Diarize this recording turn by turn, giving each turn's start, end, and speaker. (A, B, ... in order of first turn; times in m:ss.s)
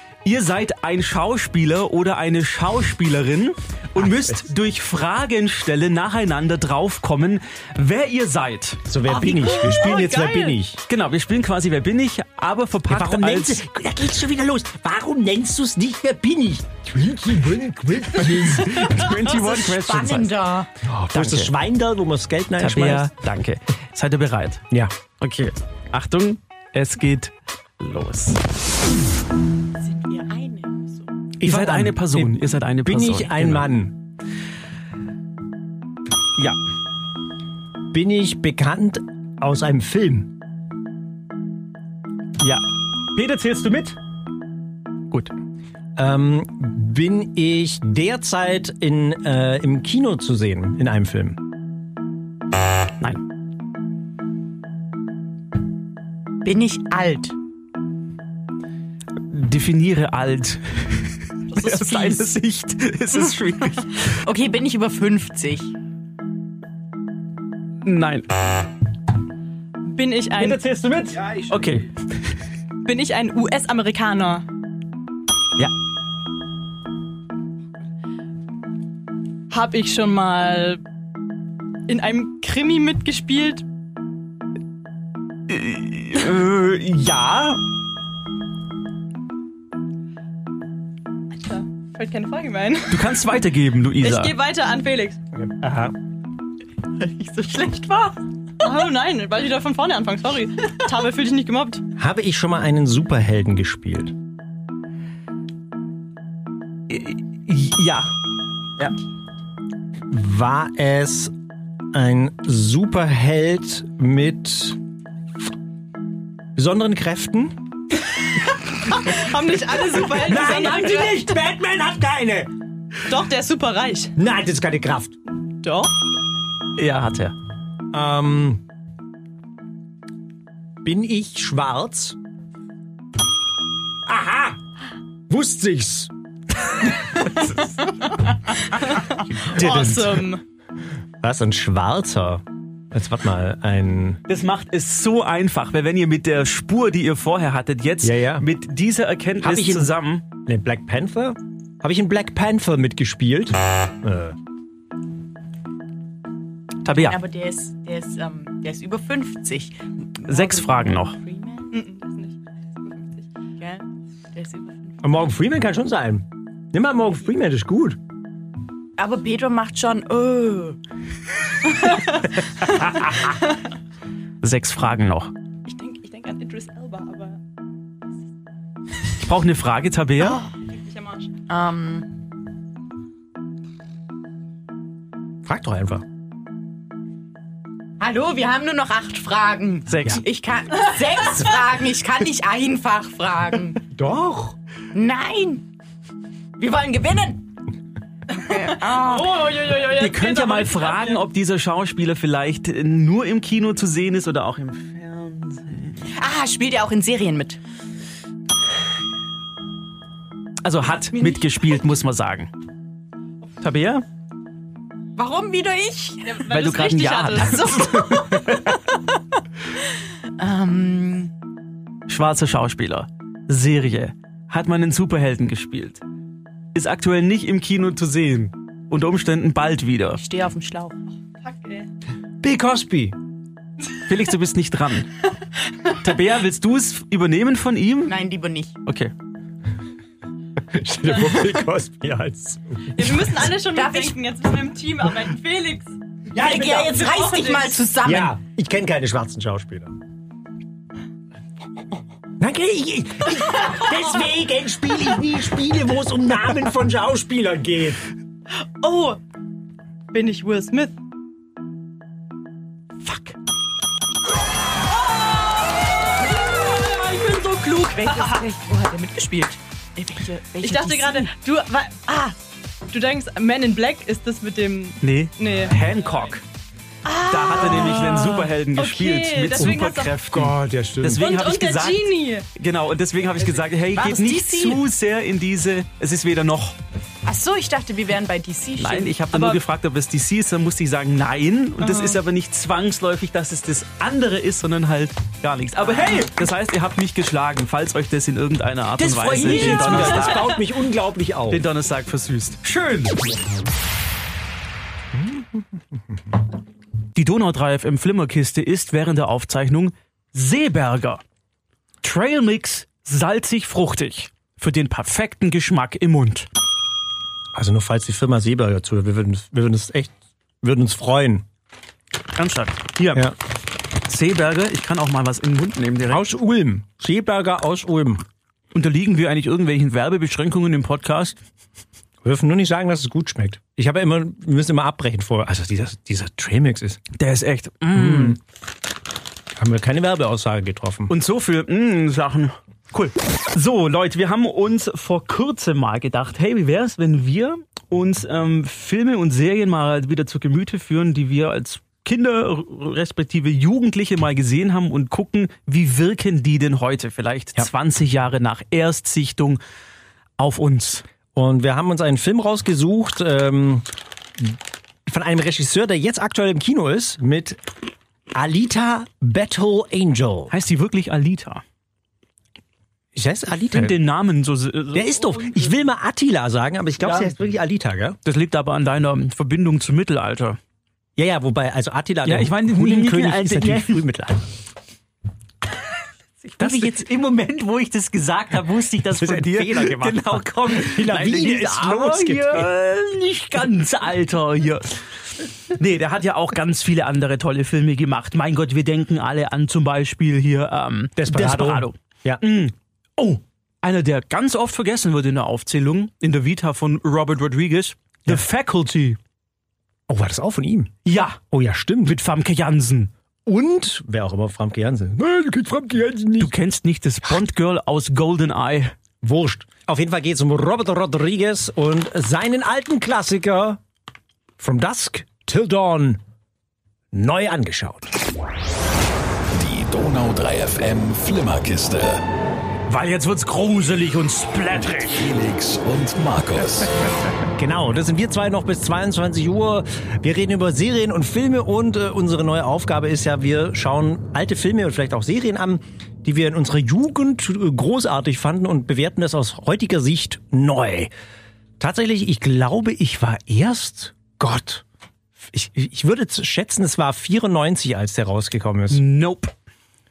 0:00.2-0:08.8 A
0:04.0-0:04.4 B
0:08.9-0:10.8 B
0:09.1-0:10.6 C
0:10.9-0:13.6 A
0:12.9-0:19.2 B
0:18.2-0:20.4 A
0:19.2-0:20.7 D
0:20.8-0:23.1 B
0:21.1-0:21.5 A
0:22.6-0:24.6 A
0:25.2-0:28.4 A
0:29.8-0:31.1 D
0:31.4-0:34.0 B
0:31.4-0:33.7 A
0:37.9-0:40.3 B
0:42.4-0:44.0 A
0:46.0-0:51.4 B
0:56.4-0:57.4 D
0:59.3-1:04.1 A
1:01.8-1:02.1 C
1:04.2-1:05.7 D
1:07.8-1:08.3 A
1:09.9-1:10.6 C
1:10.4-1:11.9 A
1:12.8-1:14.4 C
1:19.5-1:20.8 C
1:21.9-1:23.6 C
1:25.5-1:27.6 A
1:31.4-1:33.2 C
1:32.9-1:34.3 A
1:34.0-1:35.2 C
1:35.4-1:36.0 B
1:37.1-1:38.1 D
1:37.7-1:37.9 A
1:38.6-1:41.8 C
1:42.0-1:44.2 B
1:46.9-1:48.1 A
1:50.1-1:51.3 B
1:51.9-1:54.8 B
1:56.6-1:57.6 B
1:58.8-2:01.3 C
2:00.0-2:02.5 B
2:03.1-2:04.1 C
2:04.2-2:05.2 B
2:05.6-2:05.9 C
2:06.8-2:07.4 A
2:07.9-2:08.6 B
2:10.8-2:12.2 B
2:14.1-2:14.6 B
2:15.3-2:16.1 B
2:18.1-2:20.4 C
2:19.5-2:20.2 A
2:19.5-2:20.1 B
2:21.2-2:24.2 B
2:24.3-2:30.2 A
2:28.0-2:28.5 B
2:29.4-2:34.4 B
2:36.8-2:37.2 A
2:37.0-2:41.7 D
2:40.3-2:41.2 A
2:41.7-2:43.3 C
2:43.6-2:45.0 D
2:45.0-2:48.0 B
2:49.0-2:50.8 D
2:51.8-2:52.3 D
2:54.4-2:55.3 A
2:55.7-2:57.4 C
2:59.2-3:00.4 A
3:00.2-3:00.5 D
3:00.7-3:01.3 C
3:01.5-3:02.1 D
3:05.4-3:06.0 B
3:08.0-3:13.8 D
3:09.9-3:10.2 A
3:13.9-3:14.6 B
3:14.9-3:15.6 D
3:16.6-3:17.5 D
3:18.3-3:19.6 D
3:18.9-3:21.2 C
3:19.7-3:26.0 A
3:26.2-3:27.6 D
3:30.6-3:32.5 A
3:33.6-3:34.0 A
3:35.2-3:38.7 D
3:36.2-3:38.4 C
3:36.5-3:38.4 A
3:40.4-3:41.3 D
3:42.1-3:46.0 A
3:46.8-3:50.2 A
3:50.2-3:51.0 D
3:51.4-3:51.9 C
3:52.4-3:53.2 B
3:54.1-3:55.1 A
3:56.0-3:58.2 A
3:58.1-3:58.8 D
3:58.8-3:59.1 A
4:00.7-4:03.3 B
4:02.9-4:05.9 C
4:03.7-4:04.2 D
4:06.3-4:07.1 B
4:06.4-4:08.4 D
4:06.5-4:07.8 C
4:08.0-4:09.9 B
4:12.4-4:18.0 B
4:18.8-4:19.2 C
4:20.1-4:21.0 C
4:23.0-4:23.3 A
4:26.5-4:31.3 D
4:26.7-4:27.2 C
4:28.0-4:28.4 C
4:30.6-4:32.4 C
4:32.9-4:36.0 C
4:35.0-4:36.4 A
4:37.1-4:40.2 C
4:37.1-4:38.2 D
4:37.3-4:46.8 A
4:40.3-4:41.3 B
4:41.2-4:42.5 C
4:43.9-4:44.8 D
4:47.2-4:49.2 D
4:48.8-5:00.6 A
4:51.8-4:52.2 C
4:59.0-5:01.7 B
4:59.4-5:00.0 C
5:01.5-5:03.2 A
5:05.1-5:06.2 B
5:07.2-5:11.2 A
5:12.0-5:16.5 A
5:17.5-5:21.4 B
5:22.4-5:23.3 A
5:24.0-5:26.2 A
5:26.1-5:28.2 B
5:28.7-5:31.4 A
5:32.2-5:37.0 B
5:37.2-5:38.4 A
5:37.9-5:38.4 B
5:39.6-5:41.1 B
5:41.1-5:59.6 A
6:00.4-6:01.0 A
6:01.3-6:03.9 B
6:04.4-6:07.6 B
6:08.3-6:10.5 B
6:10.5-6:11.6 A
6:13.2-6:14.0 B
6:13.7-6:15.7 A
6:14.9-6:18.2 B
6:17.0-6:17.3 A
6:18.2-6:20.6 A
6:21.2-6:24.4 B
6:22.2-6:24.0 A
6:26.6-6:27.0 B
6:26.6-6:35.0 A
6:29.2-6:32.7 B
6:35.7-6:49.2 A
6:41.2-6:42.4 B
6:50.1-6:52.2 B
6:51.0-6:51.4 A
6:52.0-6:53.1 A
6:53.5-6:56.5 B
6:56.4-6:59.0 A
6:59.2-7:03.8 B
7:04.6-7:06.2 B
7:07.1-7:08.1 B
7:09.5-7:12.2 E
7:12.9-7:15.3 A
7:15.1-7:16.9 E
7:17.5-7:31.1 B
7:31.8-7:34.8 B
7:35.4-7:39.0 B
7:38.9-7:39.5 A